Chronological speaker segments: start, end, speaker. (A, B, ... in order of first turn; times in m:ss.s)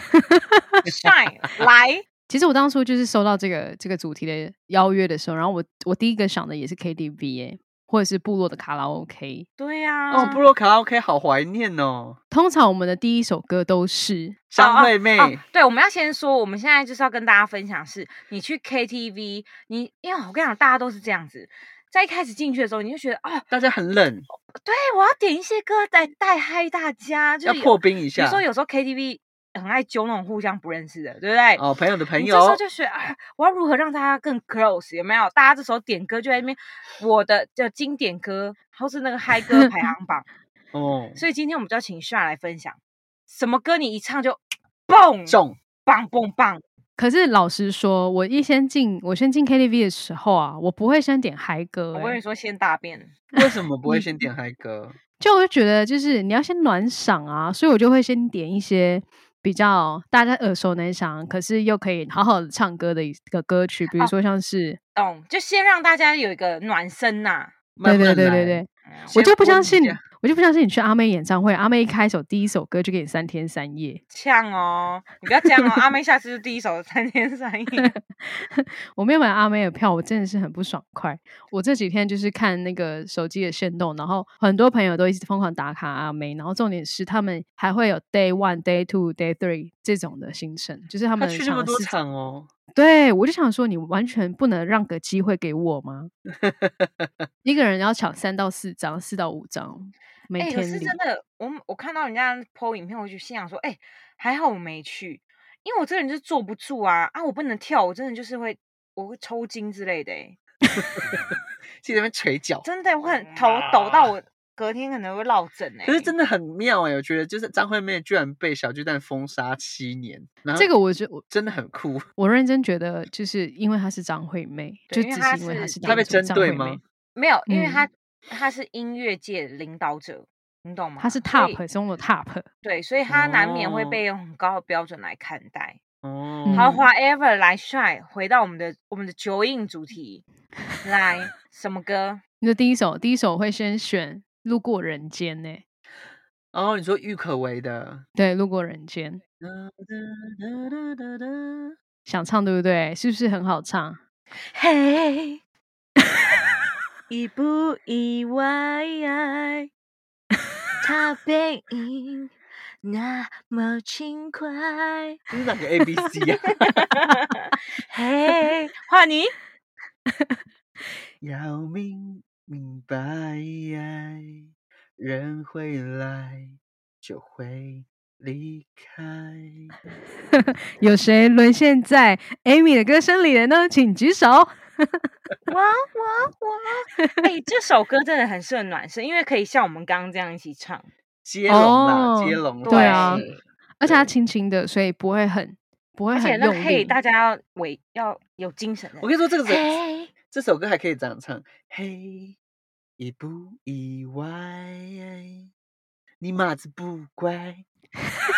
0:00.2-0:00.6 A
0:00.8-0:02.0 B
0:02.3-0:09.5 A
0:09.6-0:10.4 B
0:10.1-0:12.2 C
0:12.3-0:14.4 A
0:14.5-0:15.4 C
0:14.6-0:23.5 B
0:23.5-0:24.3 C
0:24.6-0:31.6 B
0:27.4-0:28.4 C
0:31.6-0:32.6 C
0:32.2-0:40.3 B
0:40.7-0:41.2 C
0:41.2-0:46.6 B
0:45.3-0:45.6 C
0:47.0-0:52.2 A
0:51.9-0:53.2 B
0:53.4-0:55.0 C
0:53.4-0:54.1 A
0:55.2-1:04.8 A
1:05.0-1:07.5 B
1:07.8-1:10.0 C
1:07.8-1:14.0 A
1:08.9-1:09.2 B
1:14.1-1:17.9 B
1:17.8-1:31.9 A
1:31.2-1:32.5 C
1:32.7-1:36.1 A
1:36.3-1:37.3 C
1:37.4-1:41.0 A
1:40.4-1:50.4 B
1:50.8-1:51.2 C
1:51.8-1:54.1 C
1:52.6-1:56.1 B
1:55.8-2:00.7 C
2:00.5-2:01.2 A
2:01.3-2:02.0 C
2:02.2-2:06.8 A
2:04.9-2:05.8 B
2:05.8-2:06.8 C
2:07.1-2:11.6 B
2:07.5-2:07.9 A
2:11.0-2:12.5 A
2:12.6-2:15.8 B
2:13.1-2:14.0 C
2:16.0-2:16.8 C
2:16.4-2:16.8 A
2:16.5-2:20.2 B
2:20.8-2:22.2 B
2:22.4-2:25.6 A
2:26.5-2:28.0 C
2:28.2-2:29.2 A
2:29.4-2:31.7 C
2:32.0-2:34.0 A
2:34.5-2:35.4 B
2:37.1-2:39.7 B
2:40.8-2:45.2 B
2:45.3-2:46.8 C
2:46.6-2:49.4 B
2:51.2-2:59.8 C
3:00.3-3:05.0 A
3:05.5-3:10.9 B
3:11.2-3:14.1 C
3:11.5-3:13.2 A
3:12.6-3:13.4 B
3:13.8-3:16.9 A
3:16.1-3:20.1 B
3:19.0-3:22.4 C
3:23.0-3:25.5 C
3:26.2-3:27.6 C